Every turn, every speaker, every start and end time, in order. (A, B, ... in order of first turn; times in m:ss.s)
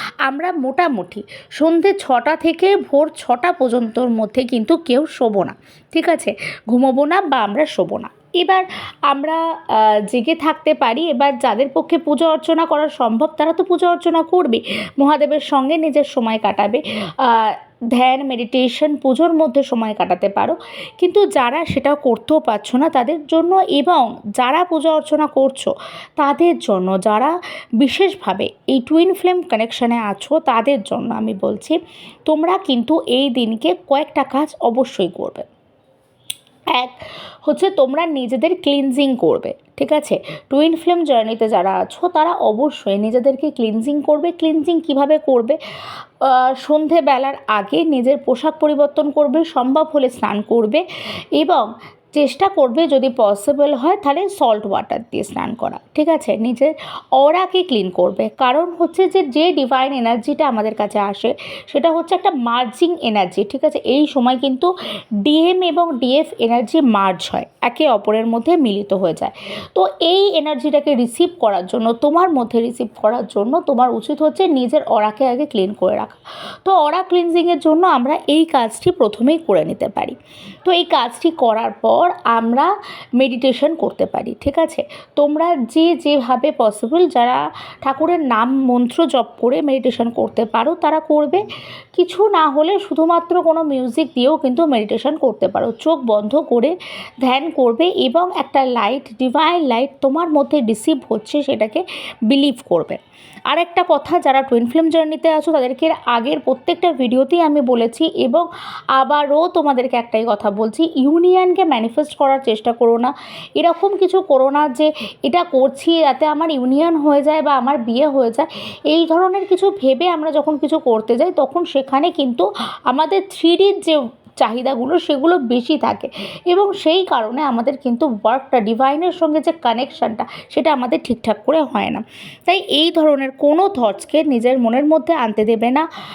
0:00.2-0:35.4 A
0:36.8-0:45.6 A
0:46.2-0:50.8 A
0:51.4-1:04.7 A
1:05.2-1:20.1 A
1:20.6-1:31.4 A
1:32.0-1:48.4 A
1:49.0-2:15.8 A